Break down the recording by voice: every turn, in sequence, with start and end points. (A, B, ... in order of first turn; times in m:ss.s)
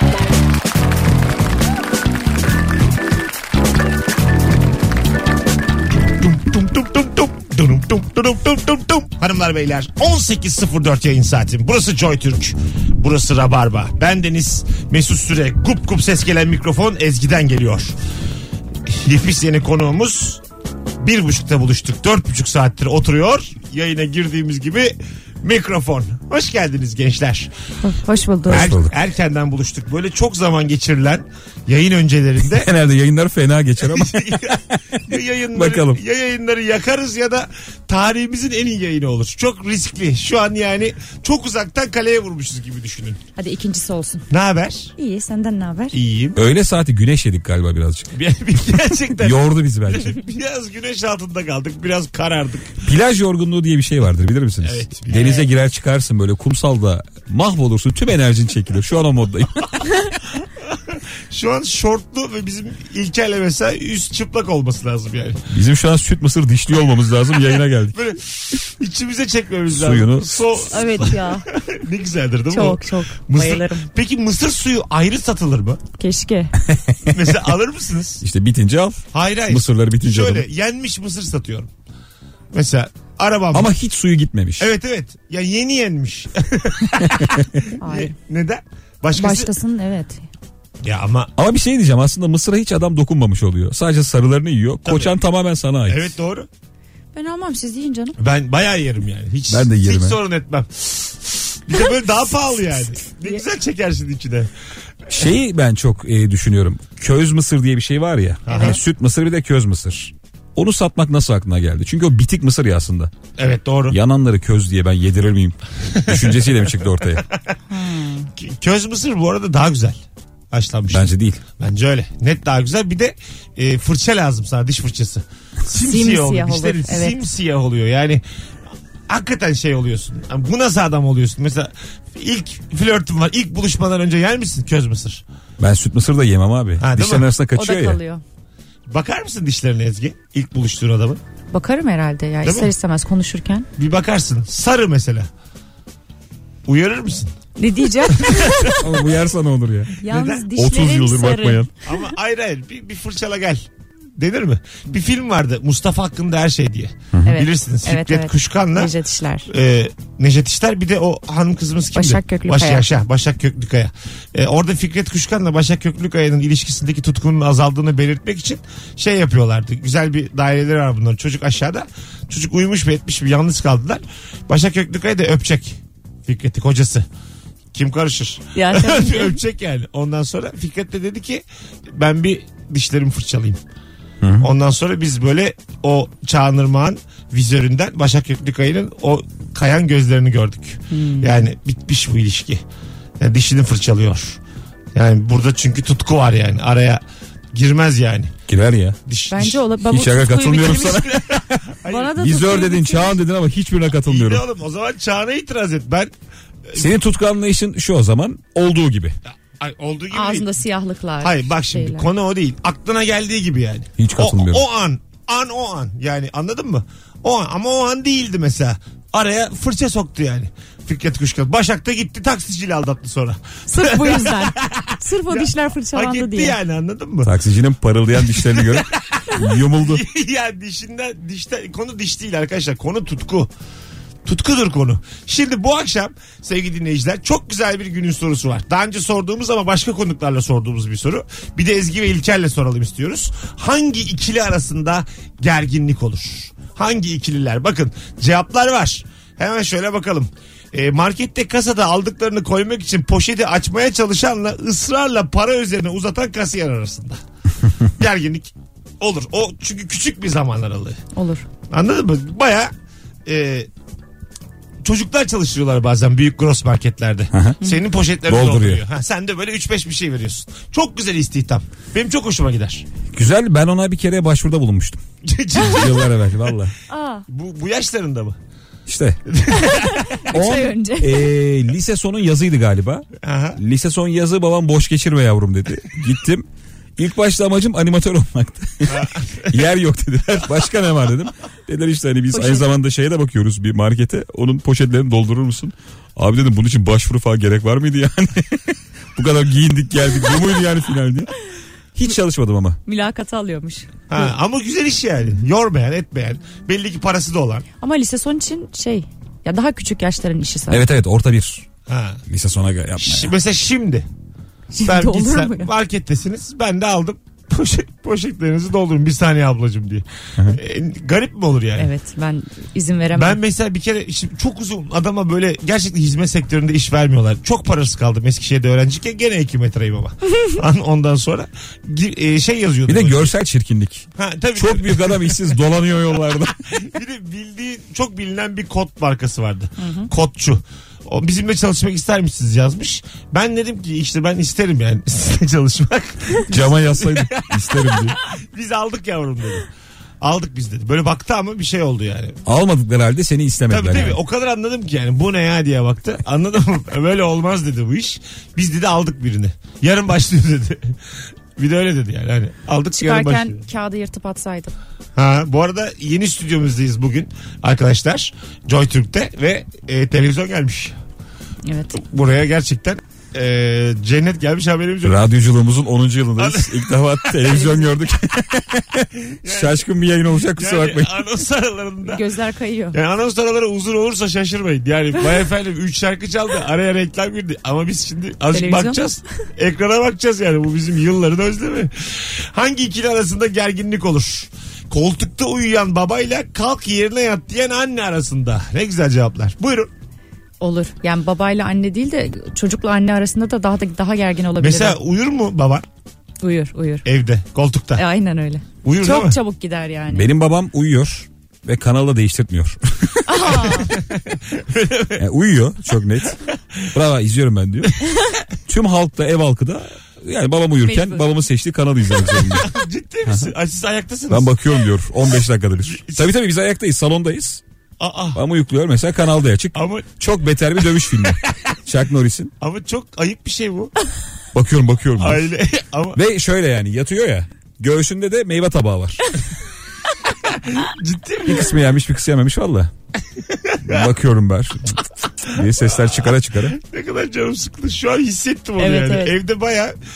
0:06.1-0:18.0 A
0:18.8-0:20.4 A
0:21.0-0:27.5 A
0:27.8-0:28.7 B
0:28.5-0:28.9 C
0:28.5-0:32.7 A
0:32.4-0:35.0 C
0:33.8-0:43.2 A
0:35.5-0:36.0 C
0:43.4-0:44.2 B
0:44.3-0:44.9 A
0:45.0-0:46.0 B
0:45.9-0:46.4 A
0:46.4-0:50.2 C
0:48.1-0:52.8 A
0:52.8-0:59.8 C
0:54.6-0:55.5 A
0:55.1-0:55.4 B
1:00.7-1:05.4 A
1:05.5-1:08.0 C
1:07.9-1:15.8 A
1:09.7-1:10.5 C
1:10.7-1:11.4 B
1:12.5-1:13.9 B
1:16.0-1:16.5 B
1:16.6-1:17.3 C
1:17.1-1:18.2 A
1:18.2-1:20.4 C
1:19.1-1:21.7 A
1:22.5-1:23.7 A
1:23.5-1:24.7 C
1:24.6-1:29.5 A
1:27.0-1:27.6 C
1:27.8-1:28.1 B
1:29.1-1:30.2 B
1:30.8-1:31.3 A
1:31.4-1:36.1 C
1:34.8-1:35.2 A
1:35.9-1:36.5 A
1:37.1-1:38.1 B
1:38.2-1:44.5 A
1:39.5-1:40.2 C
1:45.1-1:53.1 C
1:48.4-1:48.8 A
1:48.5-1:48.8 B
1:53.4-1:54.0 A
1:53.9-1:57.2 C
1:55.9-1:57.5 A
1:57.7-1:58.3 B
1:58.4-2:00.0 A
2:00.5-2:08.2 A
2:00.9-2:01.4 C
2:05.8-2:07.2 B
2:09.1-2:15.2 A
2:15.6-2:18.0 C
2:16.8-2:17.3 A
2:17.5-2:18.2 B
2:18.9-2:21.2 A
2:21.5-2:23.7 B
2:22.4-2:22.7 A
2:23.8-2:25.3 A
2:26.6-2:27.3 A
2:27.6-2:28.8 B
2:28.1-2:28.9 A
2:28.7-2:31.7 C
2:30.0-2:31.6 B
2:30.0-2:30.4 A
2:31.8-2:33.6 A
2:34.2-2:38.9 A
2:37.1-2:37.4 C
2:37.2-2:39.5 B
2:39.5-2:57.0 A
2:41.9-2:42.8 B
2:57.7-3:03.6 A
2:58.5-2:59.4 B
3:04.2-3:04.5 C
3:04.4-3:12.6 A
3:10.9-3:11.3 B
3:13.2-3:14.4 A
3:14.9-3:17.0 A
3:17.5-3:18.3 A
3:18.5-3:19.0 C
3:19.1-3:19.6 A
3:19.3-3:21.0 B
3:19.8-3:21.5 C
3:20.5-3:22.2 A
3:21.8-3:23.2 B
3:22.2-3:24.4 C
3:24.0-3:26.1 A
3:26.8-3:29.2 C
3:29.2-3:30.6 A
3:30.1-3:32.1 B
3:31.2-3:47.3 A
3:34.0-3:34.6 C
3:43.7-3:46.6 B
3:47.2-3:50.0 C
3:48.2-3:53.5 A
3:54.2-4:17.2 A
4:17.8-4:21.0 A
4:21.1-4:21.4 B
4:21.7-4:22.7 A
4:23.2-4:23.7 A
4:24.8-4:32.8 A
4:27.3-4:27.6 C
4:28.2-4:28.8 C
4:33.1-4:35.0 C
4:35.2-4:36.5 A
4:35.5-4:36.7 C
4:36.9-4:37.2 B
4:37.3-4:38.4 A
4:38.9-4:39.2 C
4:39.3-4:40.3 A
4:39.6-4:41.3 B
4:40.3-4:43.0 C
4:43.2-4:43.6 A
4:43.6-4:46.4 C
4:47.0-5:01.3 C
4:48.8-4:49.6 A
4:52.3-4:52.7 B
5:01.9-5:02.8 C
5:02.8-5:03.9 B
5:04.1-5:07.6 A
5:07.8-5:10.8 B
5:10.7-5:11.6 C
5:11.9-5:12.2 A
5:12.2-5:13.3 C
5:13.0-5:14.0 A
5:14.7-5:15.7 B
5:14.8-5:21.9 A
5:21.8-5:23.4 B
5:23.1-5:33.3 A
5:32.8-5:36.6 C
5:34.1-5:35.6 A
5:36.6-5:49.7 A
5:39.8-5:40.1 B
5:46.5-5:48.2 C
5:50.2-5:52.4 A
5:52.4-5:54.2 C
5:53.7-6:01.0 A
6:01.6-6:03.6 A
6:03.0-6:04.7 B
6:05.2-6:10.9 A
6:11.6-6:12.0 B
6:11.9-6:15.2 A
6:15.0-6:21.1 C
6:16.4-6:17.8 A
6:19.1-6:19.8 A
6:20.5-6:22.2 A
6:22.0-6:23.0 B
6:22.9-6:39.9 A
6:28.5-6:29.0 B
6:40.6-6:45.0 B
6:44.6-6:45.8 A
6:46.4-6:47.0 B
6:47.0-6:48.0 A
6:48.0-6:50.3 B
6:48.8-6:49.4 A
6:50.1-6:53.3 C
6:53.2-6:53.9 B
6:53.6-6:55.2 A
6:55.2-6:56.4 C
6:56.4-6:56.9 A
6:56.9-6:58.1 C
6:58.6-7:02.7 C
7:00.8-7:01.3 B
7:02.3-7:04.5 A
7:03.2-7:03.5 C
7:04.3-7:07.6 C
7:05.8-7:06.3 A
7:08.0-7:08.4 A
7:08.3-7:12.5 C
7:09.7-7:10.1 A
7:10.9-7:11.5 A
7:12.6-7:13.9 A
7:14.5-7:15.5 C
7:15.2-7:16.2 A
7:16.1-7:19.3 C
7:20.4-7:21.7 A
7:21.4-7:22.9 C
7:23.4-7:24.1 A
7:23.8-7:26.8 C
7:26.6-7:29.9 A
7:28.8-7:29.4 B